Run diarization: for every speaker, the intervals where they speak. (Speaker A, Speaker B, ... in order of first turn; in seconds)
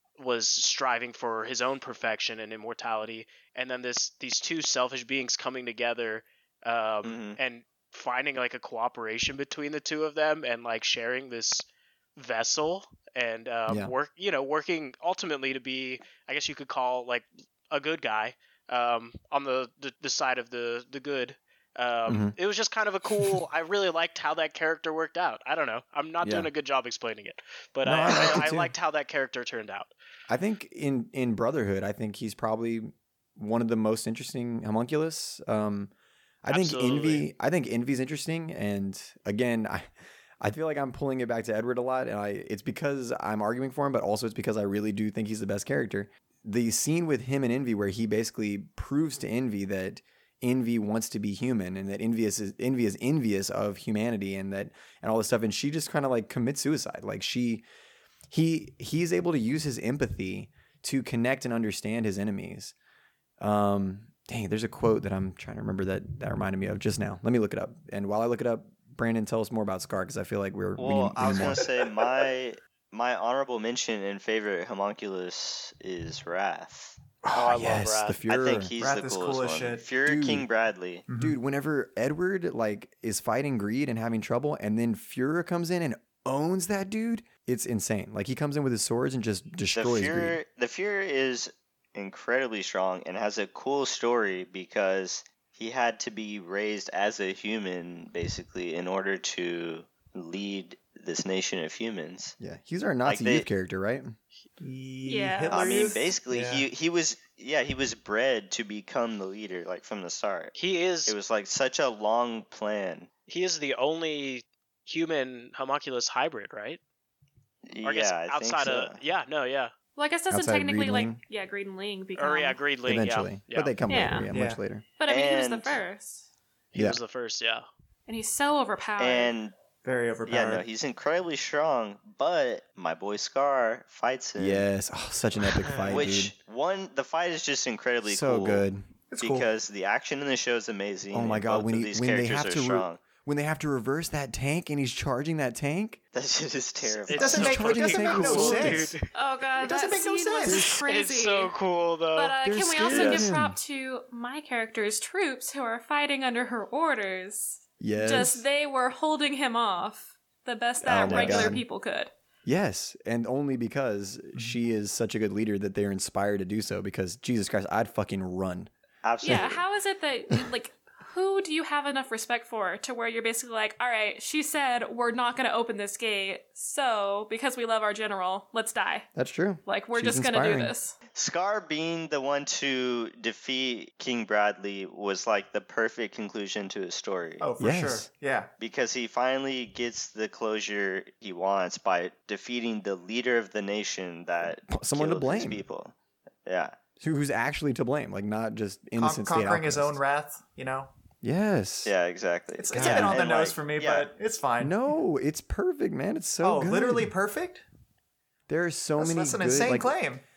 Speaker A: 0.2-11.6, 12.2-29.9, 36.5-37.2, 77.3-78.2, 110.5-111.1, 113.3-116.8, 117.8-119.7, 122.2-123.8, 126.7-127.7, 135.6-136.2, 146.8-149.1, 150.7-152.4
Speaker B: 7.0-7.4, 70.8-77.0, 78.3-81.0, 89.7-102.3, 103.0-103.5, 105.5-110.5, 111.0-113.1, 117.7-119.0, 125.0-125.8, 129.0-129.5, 130.2-134.6, 135.9-138.6, 139.2-143.0, 146.1-147.8, 152.9-153.3, 161.1-161.6, 169.0-169.6, 181.1-187.5, 188.6-196.8, 201.8-204.1
Speaker C: 22.1-22.3, 26.2-26.5, 27.8-28.7, 30.3-35.9, 36.4-39.9, 40.4-57.6, 58.3-62.7, 63.4-71.7, 77.2-78.7, 80.0-80.5, 81.2-90.4, 102.4-104.1, 120.3-121.2, 122.8-124.8, 134.4-136.3, 138.0-138.9, 141.1-146.0, 147.2-148.9, 150.5-150.8, 152.4-153.6, 157.8-158.4, 160.8-161.6, 162.4-168.7, 169.2-169.6, 179.2-180.7, 187.6-188.1, 194.4-195.6, 197.0-200.0, 201.2-201.9, 202.7-203.2, 204.6-207.1, 208.5-210.0
Speaker D: 78.8-79.8, 81.1-81.3, 104.6-106.7, 124.3-124.6, 129.8-130.7, 139.1-139.5, 147.1-149.0, 149.6-150.7, 187.4-188.5, 198.9-200.9, 202.6-204.8, 206.4-207.6, 209.0-210.2
Speaker E: 105.0-105.9, 120.0-122.6, 123.9-124.3, 125.0-126.3, 128.1-129.3, 149.1-151.5, 152.1-162.1, 169.2-179.1, 179.6-180.9